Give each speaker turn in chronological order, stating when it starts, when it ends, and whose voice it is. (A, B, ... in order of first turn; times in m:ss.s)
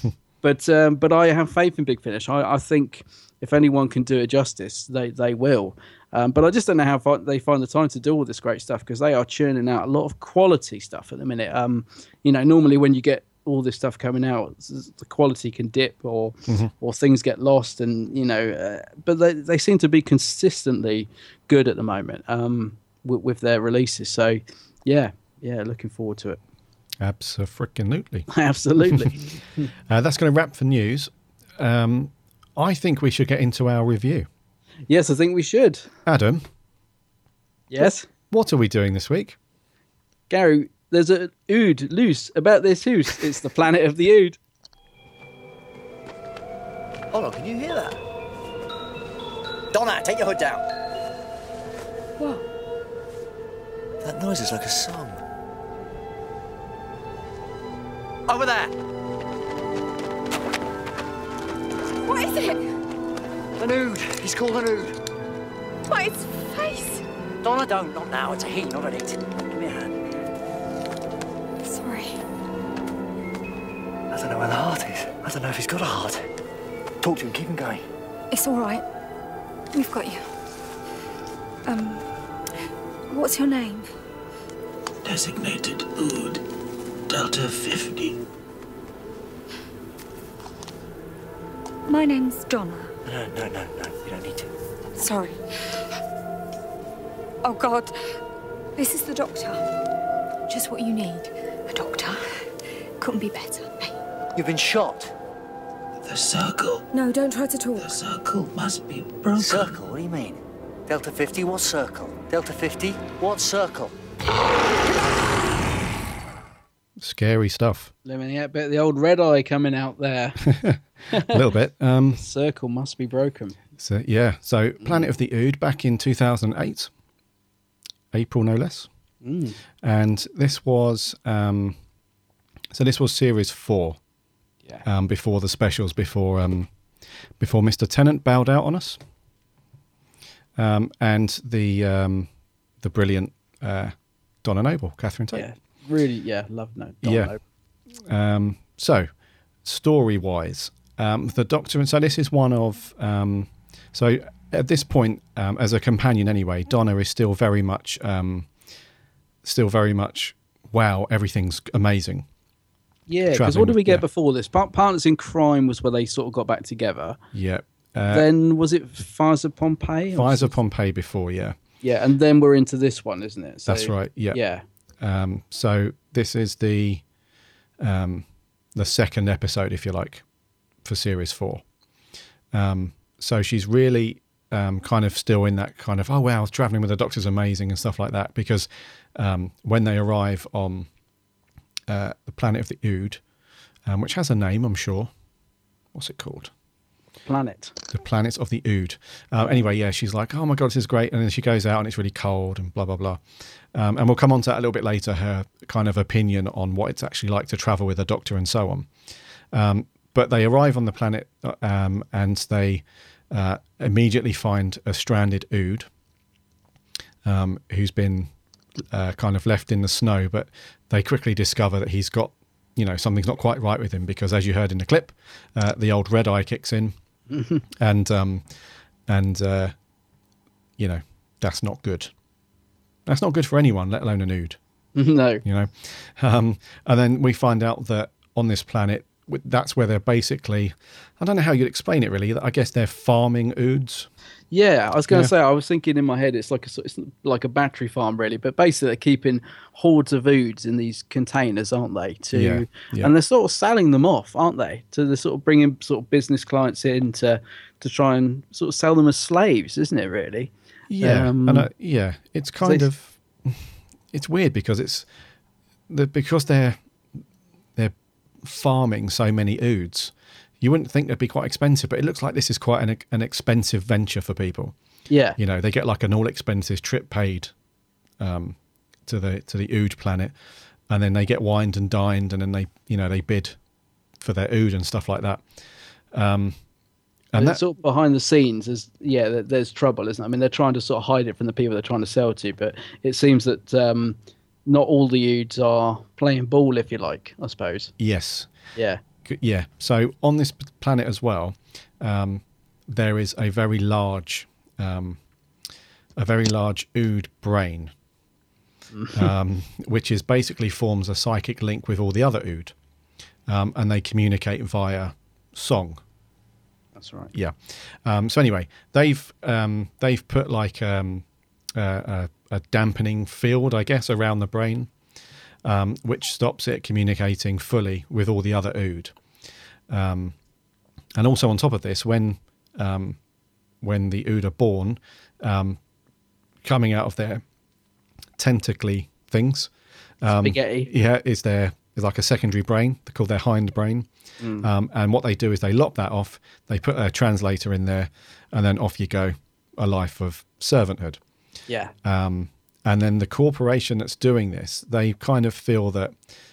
0:00.4-0:26.4 A
0:27.0-0:28.3 B
0:28.3-0:29.6 A
0:28.8-0:29.2 B
0:29.9-0:34.3 B
0:34.9-0:35.9 A
0:36.0-0:36.4 B
0:37.7-0:38.1 A
0:37.8-0:39.4 B
0:40.3-0:44.4 A
0:47.1-0:48.0 C
0:49.7-0:50.6 C
0:52.2-0:52.4 D
0:54.0-0:55.2 C
0:58.3-0:58.8 C
1:02.0-1:02.6 D
1:03.6-1:05.0 C
1:05.9-1:07.0 D
1:07.4-1:10.0 C
1:11.6-1:12.2 D
1:14.1-1:16.3 C
1:17.0-1:17.8 C
1:18.3-1:18.8 D
1:19.7-1:20.2 D
1:21.6-1:22.0 D
1:23.1-1:23.9 D
1:25.0-1:26.4 E
1:27.1-1:28.2 E
1:31.9-1:32.9 D
1:33.0-1:34.5 C
1:35.0-1:35.4 D
1:37.4-1:37.9 D
1:38.8-1:39.6 D
1:40.5-1:42.2 D
1:43.0-1:43.9 D
1:44.3-1:45.1 C
1:46.0-1:46.8 E
1:46.9-1:47.9 D
1:47.8-1:49.7 E
1:49.3-1:53.9 C
1:57.0-1:57.9 B
1:58.0-2:00.5 A
2:00.4-2:02.2 B
2:02.2-2:03.6 A
2:03.8-2:06.9 B
2:08.1-2:08.9 B
2:09.2-2:09.6 A
2:09.8-2:11.8 B
2:12.7-2:14.0 B
2:14.8-2:16.7 B
2:17.4-2:19.0 B
2:20.6-2:22.3 B
2:22.8-2:25.4 B
2:25.3-2:27.4 A
2:27.0-2:27.3 B
2:28.0-2:29.1 B
2:29.6-2:38.5 B
2:39.4-2:42.2 B
2:43.1-2:47.2 A
2:43.3-2:44.0 B
2:47.3-2:48.3 B
2:48.1-2:50.5 A
2:50.1-2:51.6 B
2:51.8-2:54.6 A
2:53.7-2:54.4 B
2:55.0-2:57.0 B
2:57.8-3:00.2 B
3:00.8-3:01.6 B
3:02.5-3:10.9 B
3:11.9-3:13.2 B
3:13.8-3:15.1 B
3:15.9-3:16.5 B
3:17.2-3:17.7 A
3:17.9-3:23.2 B
3:23.7-3:28.9 B
3:29.5-3:35.9 B
3:37.2-3:38.3 B
3:38.9-3:46.9 B
3:47.3-3:47.6 A
3:47.7-3:48.4 B
3:49.1-3:49.7 B
3:50.8-3:52.1 B
3:53.0-3:54.6 B
3:55.0-3:55.4 A
3:55.4-4:04.1 B
4:04.5-4:20.5 A
4:12.3-4:13.1 B
4:20.9-4:25.1 B
4:21.0-4:21.7 A
4:25.9-4:26.8 B
4:27.8-4:34.7 B
4:35.1-4:35.4 A
4:35.4-4:37.5 B
4:38.2-4:40.3 B
4:40.9-4:43.6 B
4:44.2-4:45.4 B
4:46.1-4:46.6 B
4:47.3-4:47.6 B
4:47.4-4:57.9 A
4:58.0-4:58.5 B
4:58.7-4:59.0 A
4:59.2-5:05.2 B
5:06.2-5:07.9 B
5:08.9-5:09.3 A
5:09.1-5:12.7 B
5:13.5-5:16.0 B
5:17.0-5:17.3 A
5:17.3-5:24.9 B
5:25.6-5:29.2 B
5:29.9-5:30.3 B
5:31.2-5:33.2 B
5:33.8-5:35.8 B
5:36.6-5:37.4 B
5:38.4-5:39.7 B
5:40.2-5:51.2 B
5:40.4-5:40.9 A
5:44.4-5:44.6 A
5:51.7-5:51.9 A
5:52.0-5:56.1 B